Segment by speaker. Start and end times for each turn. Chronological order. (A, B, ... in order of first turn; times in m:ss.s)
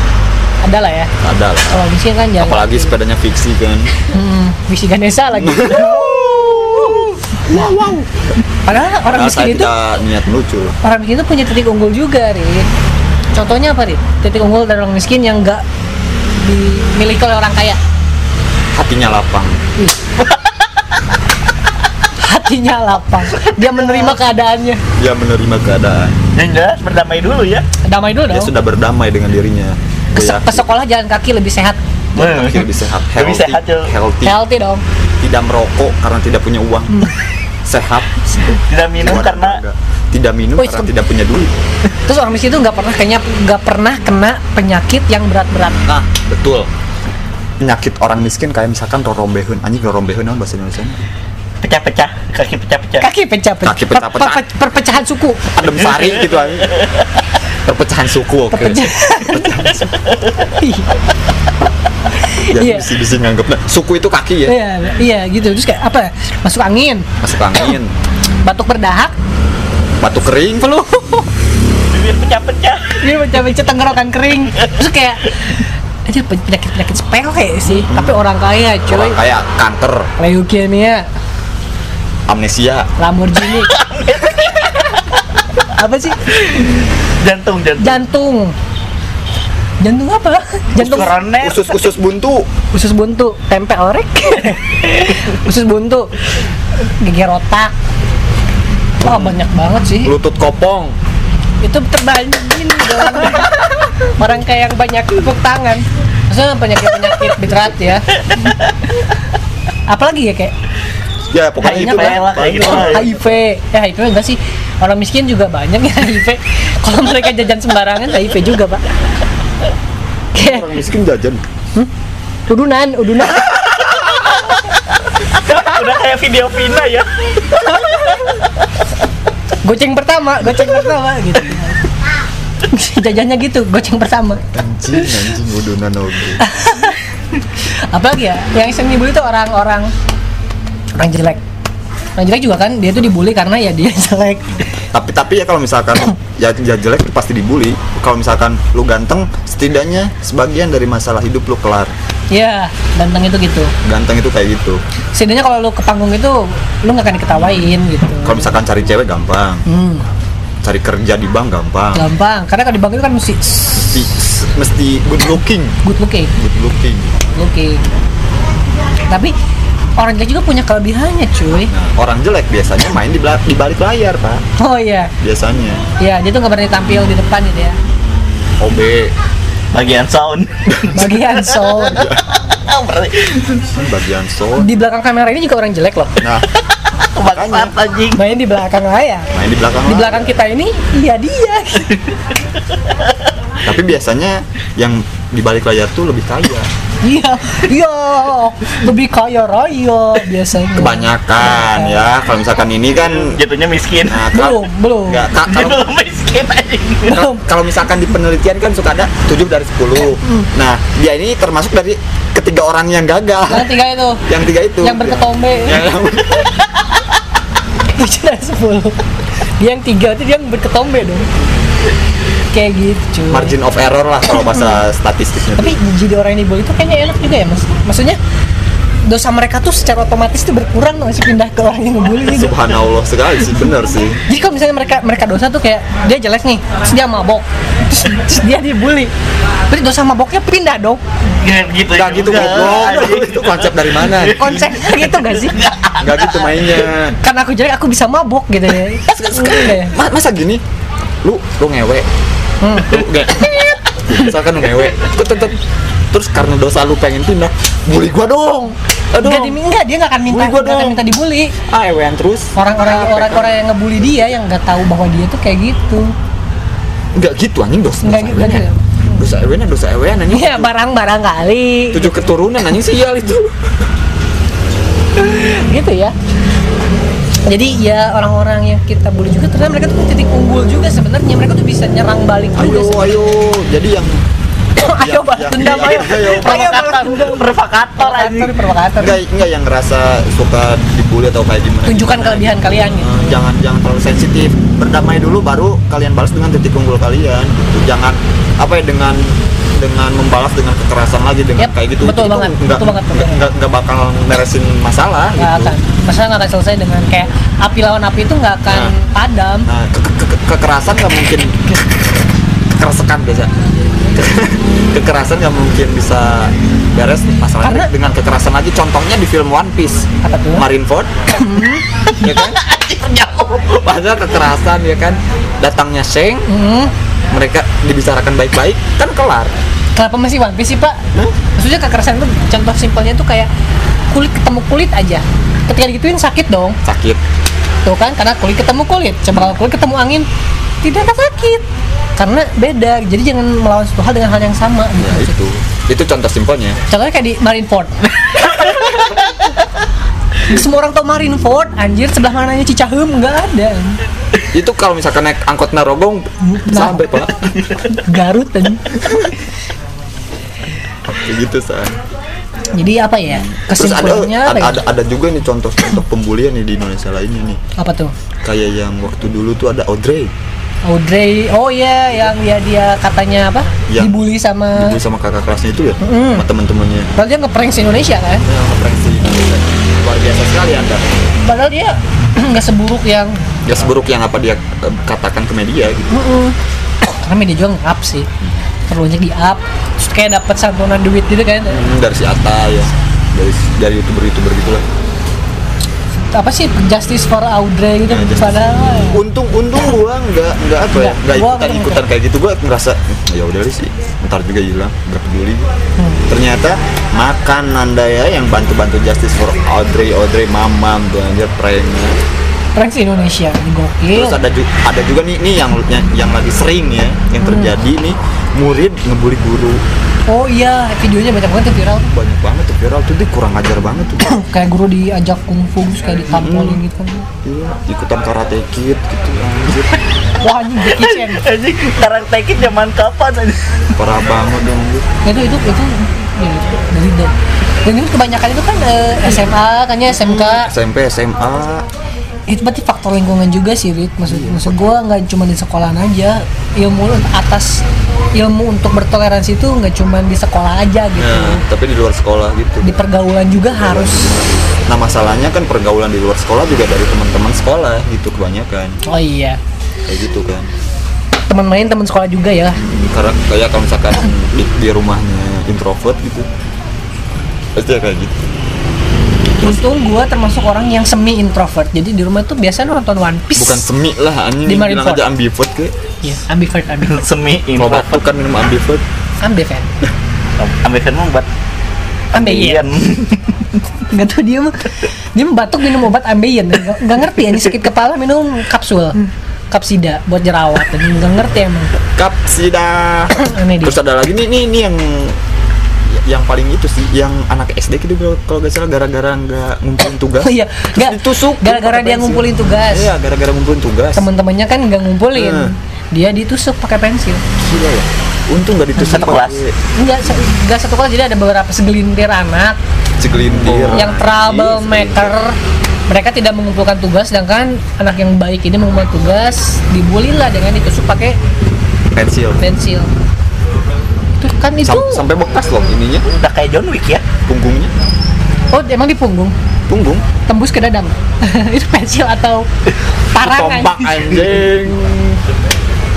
0:00.6-0:01.1 A
0:01.2-0:01.9 B
0:01.7-0:02.9 A
0:02.4-0:03.9 B
0:04.0-0:07.8 A
0:05.4-0:08.1 B
0:08.6-0:09.7 A
0:09.1-0:10.8 B
0:10.8-0:12.7 A
0:13.3-0:15.6 A
0:16.4-0:17.8 A
0:18.8-0:19.6 B
0:20.2-0:20.6 C
0:22.2-0:24.8 A
0:25.0-0:26.2 B
0:26.4-0:27.6 C
0:27.8-0:28.5 A
0:28.3-0:30.7 B
0:30.1-0:31.8 A
0:32.2-0:34.4 B
0:32.2-0:33.9 C
0:34.2-0:34.8 A
0:35.2-0:37.1 B
0:37.6-0:41.5 B
0:38.7-0:39.6 C
0:40.6-0:40.9 A
0:42.0-0:45.8 A
0:45.8-0:46.7 B
0:47.6-0:51.0 B
0:51.6-0:53.1 C
0:53.0-0:55.5 A
0:53.6-0:54.4 B
0:55.5-0:56.7 B
0:55.9-0:56.9 C
0:57.6-0:59.9 B
0:58.5-0:59.6 A
0:59.9-1:00.3 C
1:00.6-1:00.9 A
1:02.2-1:02.9 A
1:02.5-1:04.6 B
1:04.5-1:07.1 A
1:07.2-1:07.9 B
1:08.4-1:09.2 A
1:10.0-1:10.7 B
1:10.6-1:11.3 A
1:11.9-1:13.0 C
1:13.0-1:19.2 A
1:17.7-1:18.2 B
1:18.9-1:20.1 B
1:20.2-1:21.1 A
1:22.3-1:22.9 B
1:23.0-1:23.7 A
1:23.6-1:25.2 C
1:25.8-1:26.2 A
1:26.3-1:28.0 C
1:27.8-1:28.5 A
1:29.8-1:31.1 A
1:30.8-1:31.8 C
1:30.8-1:32.5 B
1:32.7-1:36.1 A
1:36.8-1:37.7 A
1:39.0-1:40.1 A
1:39.0-1:39.4 B
1:40.0-1:41.0 B
1:41.6-1:48.0 A
1:48.3-1:48.6 C
1:49.9-1:50.5 A
1:51.3-1:53.4 B
1:51.6-1:53.1 C
1:51.6-1:58.8 A
2:00.4-2:00.7 A
2:00.4-2:01.4 B
2:02.5-2:03.6 A
2:03.5-2:04.7 C
2:05.3-2:08.4 C
2:07.6-2:08.4 A
2:09.6-2:11.8 A
2:12.7-2:14.4 A
2:14.5-2:16.4 B
2:16.4-2:19.9 A
2:21.0-2:21.4 A
2:22.2-2:24.6 A
2:24.9-2:31.9 B
2:32.3-2:33.7 A
2:33.8-2:34.8 B
2:35.2-2:38.5 A
2:38.2-2:39.6 B
2:39.7-2:40.1 A
2:40.6-2:42.1 B
2:42.0-2:44.0 A
2:43.7-2:45.8 B
2:45.8-2:46.3 A
2:46.4-2:47.2 B
2:47.3-2:47.8 A
2:49.1-2:49.3 A
2:50.0-2:51.7 A
2:51.7-2:54.4 B
2:54.6-2:55.1 A
2:55.2-2:55.9 B
2:56.0-2:57.8 A
2:57.9-2:59.1 B
2:59.7-3:03.6 C
3:00.9-3:02.0 A
3:01.9-3:02.2 B
3:03.7-3:04.8 B
3:04.6-3:06.2 A
3:06.2-3:06.5 B
3:07.0-3:08.2 C
3:07.2-3:07.7 B
3:08.2-3:09.3 A
3:09.3-3:10.3 B
3:09.9-3:12.0 A
3:13.6-3:16.7 B
3:17.0-3:22.0 A
3:20.7-3:23.4 B
3:23.2-3:24.2 C
3:24.1-3:25.9 B
3:24.3-3:25.3 A
3:25.5-3:27.3 C
3:27.1-3:27.4 A
3:27.3-3:33.7 B
3:30.2-3:30.5 A
3:33.5-3:34.2 A
3:34.3-3:36.5 B
3:34.8-3:35.9 A
3:37.9-3:39.0 A
3:39.6-3:41.5 A
3:42.5-3:43.6 A
3:43.3-3:45.8 B
3:44.4-3:44.8 A
3:45.6-3:48.2 A
3:49.1-3:52.6 A
3:52.2-3:54.2 B
3:54.3-3:59.1 A
3:59.7-4:01.0 A
4:01.4-4:06.9 C
4:01.9-4:04.6 B
4:04.3-4:05.6 A
4:06.0-4:07.2 B
4:07.2-4:10.0 A
4:09.1-4:10.6 B
4:11.2-4:12.1 B
4:12.6-4:12.9 A
4:12.8-4:15.6 B
4:16.1-4:19.6 B
4:19.2-4:21.6 A
4:20.3-4:21.0 B
4:21.7-4:24.3 B
4:22.6-4:26.1 A
4:27.2-4:28.6 B
4:28.0-4:29.3 A
4:29.2-4:30.7 B
4:30.3-4:32.1 A
4:31.9-4:33.6 B
4:35.2-4:36.1 A
4:37.5-4:43.4 A
4:42.6-4:44.2 B
4:44.8-4:49.2 A
4:44.8-4:46.8 B
4:45.6-4:48.6 C
4:49.0-5:05.8 B
4:51.9-4:53.4 A
5:01.6-5:03.5 A
5:05.4-5:09.7 A
5:08.7-5:08.9 B
5:09.6-5:11.8 B
5:12.7-5:13.5 B
5:14.1-5:21.1 B
5:17.6-5:17.9 A
5:20.2-5:20.7 A
5:21.3-5:22.0 A
5:22.2-5:22.7 B
5:22.3-5:23.8 C
5:23.7-5:26.5 B
5:26.5-5:26.9 A
5:27.3-5:29.5 B
5:30.0-5:31.0 A
5:31.6-5:33.5 A
5:34.1-5:36.8 A
5:36.8-5:37.2 B
5:37.8-5:40.3 A
5:40.8-5:41.7 A
5:42.2-5:45.4 A
5:45.0-5:46.8 B
5:46.9-5:49.4 A
5:50.4-5:54.0 A
5:54.5-5:57.4 B
5:56.4-5:57.1 A
5:57.9-5:58.9 A
5:59.0-5:59.3 B
6:01.1-6:02.0 B
6:02.7-6:04.8 A
6:03.3-6:07.6 B
6:07.8-6:08.1 A
6:08.4-6:10.3 B
6:10.9-6:15.0 A
6:13.9-6:14.2 B
6:14.7-6:17.1 B
6:16.0-6:16.4 A
6:17.2-6:18.4 A
6:18.4-6:21.1 B
6:21.4-6:23.4 A
6:23.6-6:26.2 B
6:26.1-6:28.3 A
6:28.9-6:31.8 A
6:31.7-6:34.8 B
6:36.3-6:39.2 A
6:38.1-6:45.7 B
6:40.9-6:42.0 A
6:46.3-6:52.2 B
6:52.8-6:54.4 A
6:54.1-6:59.8 B
6:57.4-6:57.7 A
7:00.3-7:02.1 A
7:02.1-7:04.2 B
7:04.2-7:07.3 A
7:06.3-7:06.8 B
7:07.4-7:10.0 B
7:10.4-7:11.5 A
7:10.9-7:13.8 C
7:14.0-7:15.1 B
7:15.2-7:17.3 A
7:17.8-7:20.7 A
7:20.1-7:21.8 B
7:22.5-7:27.8 A
7:24.3-7:25.0 B
7:28.4-7:31.6 A
7:31.2-7:39.0 B
7:32.8-7:34.3 A
7:39.0-7:39.6 A
7:40.1-7:40.7 B
7:41.5-7:42.8 A
7:42.8-7:46.5 B
7:47.8-7:48.5 B
7:49.6-7:53.8 A
7:53.6-7:55.9 B
7:54.7-7:55.3 A
7:56.2-7:57.2 A
7:57.0-7:58.2 C
7:57.8-7:59.0 B
7:59.4-7:59.9 A
8:00.6-8:01.5 C
8:02.3-8:02.8 A
8:02.4-8:03.6 C
8:04.1-8:09.2 A
8:09.7-8:11.9 A
8:12.2-8:15.4 B
8:13.3-8:14.0 A
8:16.1-8:24.3 B
8:20.4-8:23.1 A
8:24.2-8:27.4 A
8:25.3-8:25.7 B
8:27.6-8:29.8 B
8:29.0-8:29.6 C
8:30.0-8:32.8 A
8:33.2-8:35.4 B
8:33.9-8:35.6 A
8:36.1-8:41.4 A
8:42.1-8:42.6 B
8:42.6-8:43.1 A
8:44.4-8:45.2 A
8:44.8-8:46.3 B
8:46.3-8:47.2 C
8:47.5-8:47.9 B
8:48.7-8:49.6 A
8:49.9-8:50.2 B
8:50.5-8:52.7 A
8:53.3-8:54.2 A
8:53.4-8:55.4 B